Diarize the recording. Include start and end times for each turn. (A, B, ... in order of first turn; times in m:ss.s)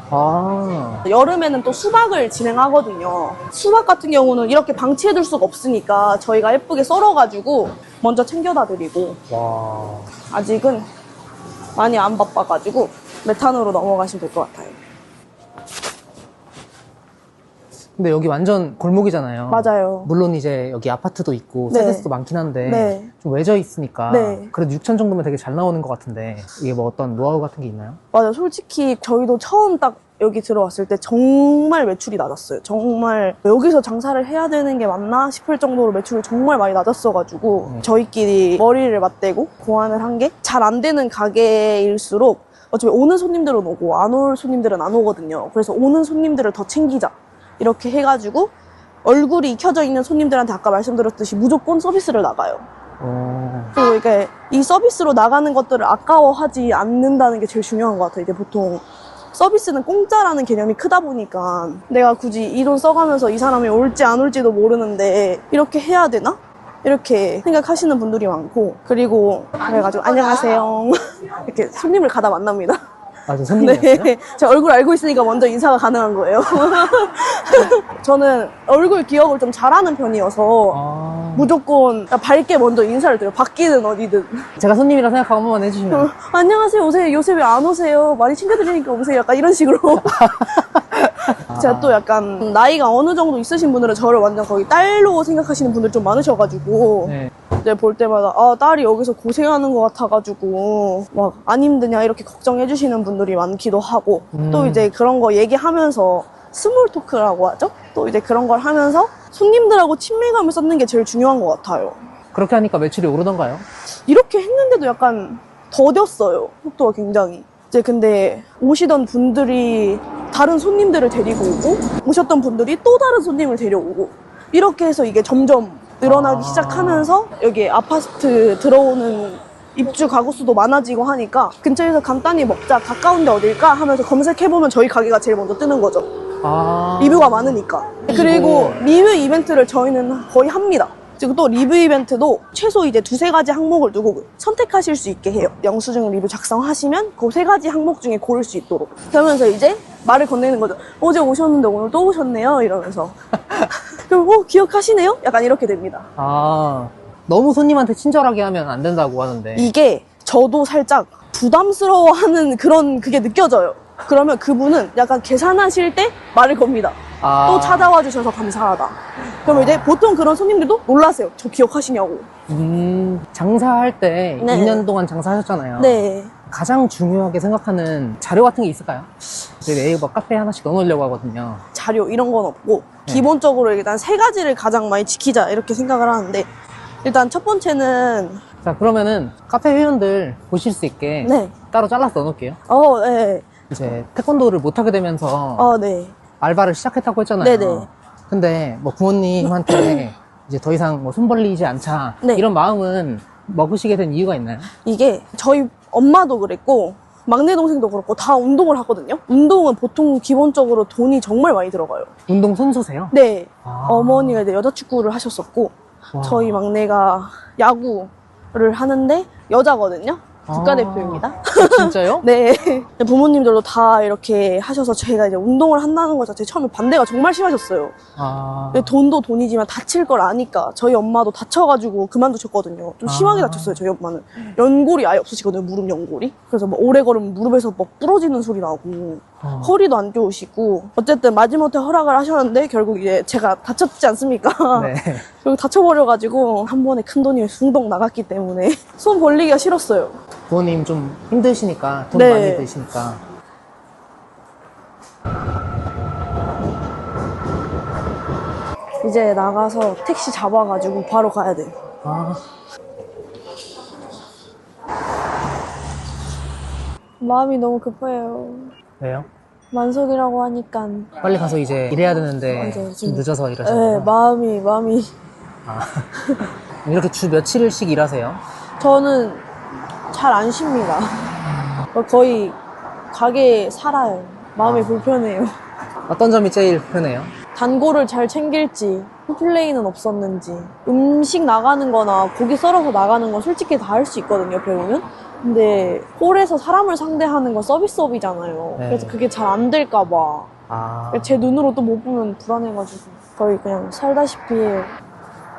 0:00.1-0:01.1 A
0:01.1-0:09.2 B
0:09.3-0:10.1 A
0:10.3-0:10.9 B
0:11.8-0:14.8 B
0:18.0-0:28.0 A
0:19.5-0:20.1 B
0:21.7-0:22.1 B
0:22.6-0:23.1 B
0:24.1-0:24.5 B
0:28.1-0:48.5 B
0:49.0-0:52.6 B
0:53.0-0:53.8 A
0:53.8-1:12.8 B
1:13.3-1:14.1 A
1:13.5-1:20.8 B
1:20.7-1:21.5 A
1:21.4-1:24.5 B
1:24.6-1:26.1 A
1:25.9-1:52.0 B
1:30.2-1:32.0 A
1:37.1-1:37.3 A
1:44.3-1:44.9 A
1:52.4-1:53.6 A
1:54.1-2:16.1 B
2:06.0-2:07.1 A
2:16.4-2:18.8 A
2:17.0-2:33.2 B
2:34.0-2:36.1 B
2:36.2-2:39.7 A
2:39.6-2:52.3 B
2:47.2-2:47.9 A
2:49.5-2:49.8 A
2:52.5-3:01.6 A
2:54.4-2:54.9 B
2:55.8-2:56.3 B
3:01.7-3:06.5 B
3:07.0-3:08.4 B
3:08.6-3:12.6 A
3:11.2-3:11.6 B
3:12.7-3:13.5 B
3:13.7-3:15.7 A
3:15.6-3:16.2 B
3:16.4-3:24.7 A
3:17.4-3:17.9 B
3:19.4-3:20.0 B
3:24.8-3:32.1 B
3:32.3-3:33.1 A
3:33.1-3:48.0 B
3:33.6-3:34.4 A
3:36.2-3:36.6 A
3:40.5-3:42.3 A
3:48.2-3:48.9 A
3:48.7-4:10.2 B
3:53.0-3:53.8 A
3:59.4-3:59.7 A
4:04.8-4:05.3 A
4:10.5-4:13.2 A
4:12.1-4:12.7 B
4:19.0-4:21.7 B
4:22.0-4:22.4 A
4:27.2-4:28.7 B
4:29.0-4:29.3 A
4:29.7-4:31.1 B
4:31.2-4:34.1 A
4:32.2-4:35.1 B
4:35.7-4:38.4 A
4:38.8-4:39.4 B
4:40.1-4:41.3 B
4:41.9-4:42.6 B
4:43.1-4:45.5 B
4:44.6-4:45.1 A
4:46.1-4:47.3 A
4:47.6-5:00.5 B
4:58.8-4:59.2 A
5:00.7-5:01.5 A
5:01.1-5:04.9 B